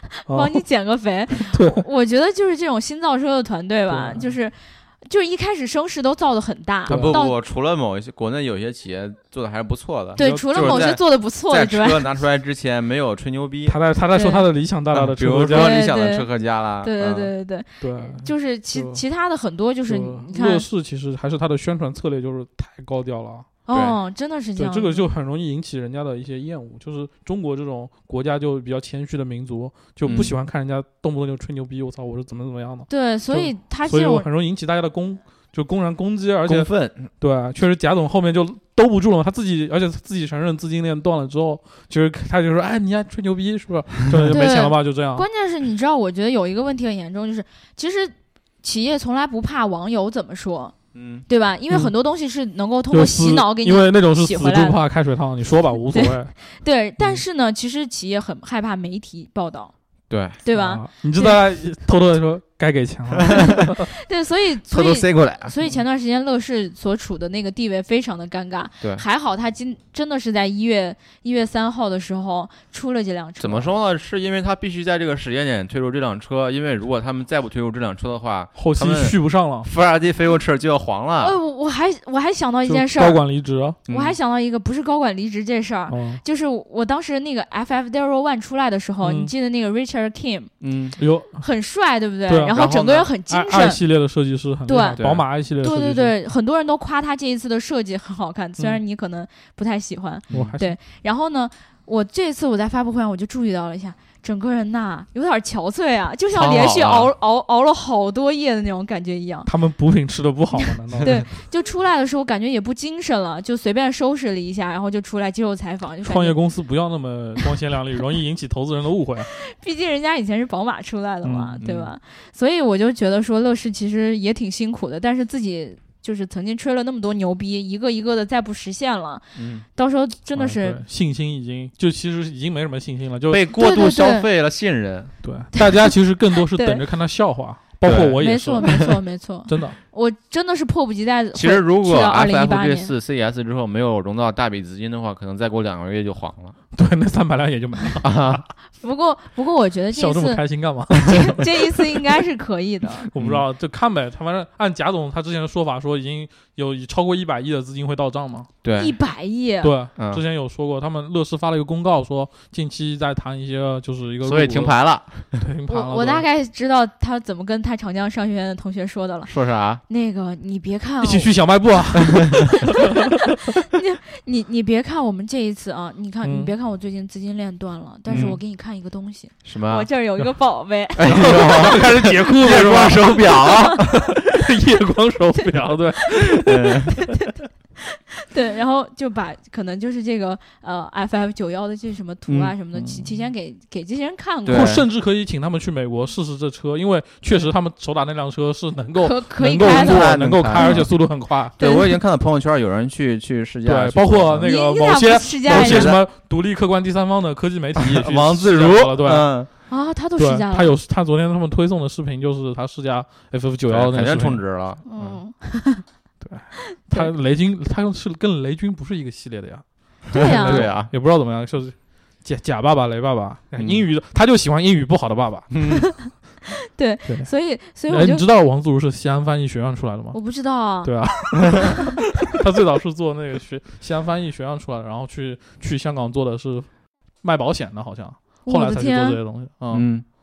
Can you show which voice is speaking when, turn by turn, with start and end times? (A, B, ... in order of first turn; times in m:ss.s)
0:00.2-0:07.4 A
0:00.3-0:00.6 B
0:01.4-0:01.8 B
0:03.9-0:04.3 B
0:06.9-0:07.2 B
0:06.9-0:13.8 C
0:10.2-0:12.0 A
0:10.2-0:10.9 B
0:13.7-0:15.9 B
0:14.1-0:14.4 A
0:14.9-0:17.3 C
0:15.5-0:16.3 A
0:16.8-0:20.6 A
0:17.8-0:19.0 B
0:19.9-0:23.5 B
0:23.7-0:25.1 A
0:23.7-0:24.0 C
0:24.6-0:45.2 B
0:30.0-0:30.4 C
0:32.9-0:34.3 A
0:36.5-0:37.1 C
0:44.3-0:50.8 A
0:51.0-0:51.2 C
0:51.3-0:54.8 A
0:52.9-0:56.4 B
0:55.9-0:59.7 A
1:00.1-1:00.4 C
1:00.4-1:01.4 A
1:00.5-1:03.8 B
1:03.2-1:03.7 C
1:03.3-1:13.7 A
1:04.7-1:05.5 C
1:13.4-1:21.4 C
1:18.6-1:19.7 B
1:21.2-1:23.2 A
1:22.7-1:23.8 B
1:23.9-1:24.2 C
1:23.9-1:30.5 A
1:25.9-1:26.2 B
1:29.0-1:29.3 B
1:30.6-1:31.0 C
1:31.0-1:31.4 B
1:31.4-1:33.8 A
1:32.3-1:32.6 B
1:32.5-1:33.1 C
1:33.3-1:36.1 B
1:34.7-1:35.1 A
1:35.0-1:35.2 C
1:35.6-1:49.5 A
1:40.3-1:40.8 B
1:46.3-1:47.1 C
1:49.5-1:51.2 B
1:50.6-1:56.4 A
1:56.0-1:59.3 B
1:59.3-2:10.8 A
2:01.2-2:01.6 B
2:01.6-2:01.9 C
2:09.4-2:09.6 C
2:10.4-2:13.4 B
2:13.3-2:15.1 C
2:13.5-2:14.3 A
2:15.2-2:18.9 B
2:15.6-2:15.9 A
2:16.5-2:16.8 A
2:17.8-2:18.7 C
2:18.2-2:22.9 A
2:19.5-2:19.8 B
2:21.4-2:26.6 C
2:26.7-2:28.4 B
2:28.0-2:28.5 C
2:28.8-2:30.4 A
2:29.9-2:31.5 B
2:31.0-2:33.1 A
2:33.0-2:38.5 B
2:33.2-2:33.4 C
2:38.6-2:38.9 C
2:38.8-2:39.7 A
2:39.6-2:44.7 B
2:44.2-2:45.4 C
2:45.4-2:46.2 B
2:45.7-2:49.3 A
2:49.3-2:49.8 C
2:49.9-2:51.3 A
2:51.0-2:53.0 B
2:52.1-2:52.4 C
2:53.6-3:01.7 A
2:56.2-2:56.5 B
2:58.1-2:58.4 C
2:58.1-2:58.4 B
2:59.4-2:59.9 C
3:01.0-3:04.1 C
3:01.1-3:06.8 B
3:03.5-3:03.8 A
3:06.4-3:06.9 C
3:07.0-3:07.4 A
3:07.9-3:14.8 A
3:12.3-3:12.5 C
3:12.7-3:13.2 B
3:14.5-3:14.8 C
3:14.5-3:21.6 B
3:19.0-3:20.9 A
3:19.4-3:20.9 C
3:21.6-3:22.0 A
3:21.6-3:24.5 C
3:23.6-3:29.3 B
3:24.4-3:26.0 A
3:25.5-3:26.0 C
3:27.8-3:29.5 C
3:29.7-3:30.7 A
3:30.2-3:34.4 B
3:33.7-3:35.2 C
3:34.9-3:35.8 A
3:36.2-3:45.6 B
3:36.7-3:37.1 A
3:40.1-3:40.9 C
3:40.1-3:40.7 A
3:43.6-3:43.8 C
3:45.5-3:45.9 C
3:46.7-3:48.2 A
3:47.9-3:50.2 B
3:50.1-3:50.9 A
3:50.8-3:56.7 B
3:57.2-3:59.9 B
3:58.5-3:59.2 A
3:59.7-4:00.0 C